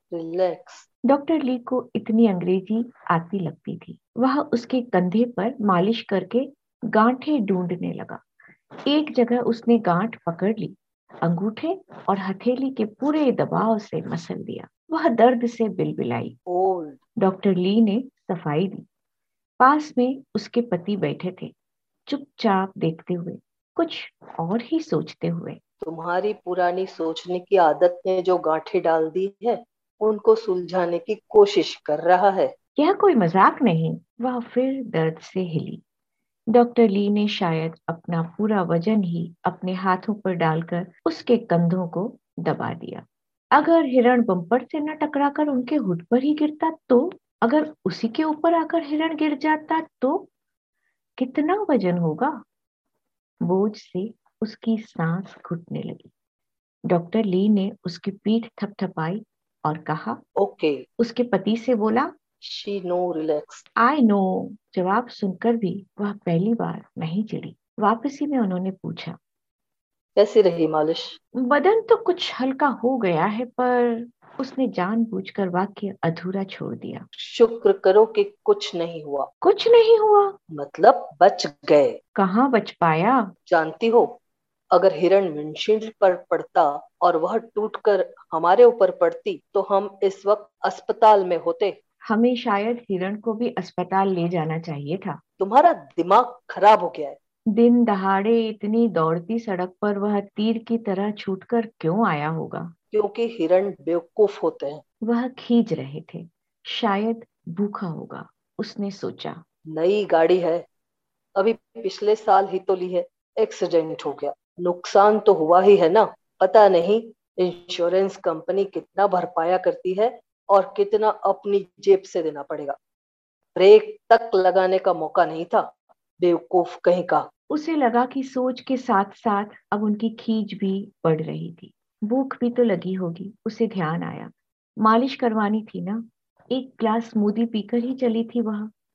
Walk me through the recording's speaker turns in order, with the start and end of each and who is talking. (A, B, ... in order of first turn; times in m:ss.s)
0:00.1-0:00.9 A
0:01.1-0:08.2 B
0:08.8-0:16.4 B
0:16.5-0:17.0 A
0:17.2-0:18.8 B
0:19.6-0:21.5 B
0:22.1-0:25.6 B
0:25.8-0:32.5 A
0:32.8-0:35.8 B
0:36.5-0:50.3 B
0:51.2-0:52.4 B
0:53.4-0:56.1 B
0:56.9-1:00.2 B
1:00.4-1:00.8 A
1:01.0-1:02.1 B
1:02.4-1:03.6 A
1:03.8-1:09.2 B
1:10.2-1:11.2 A
1:11.4-1:17.0 B
1:17.2-1:19.3 A
1:19.4-1:20.3 B
1:20.5-1:22.0 A
1:22.2-1:23.3 B
1:23.5-1:24.1 A
1:24.7-1:31.8 A
1:32.1-1:35.2 B
1:35.4-1:37.2 A
1:37.5-1:42.7 B
1:42.9-1:44.8 A
1:45.0-1:49.4 B
1:49.7-1:50.6 A
1:51.4-2:02.8 A
2:03.6-2:05.7 A
2:06.2-2:07.3 A
2:07.5-2:18.7 B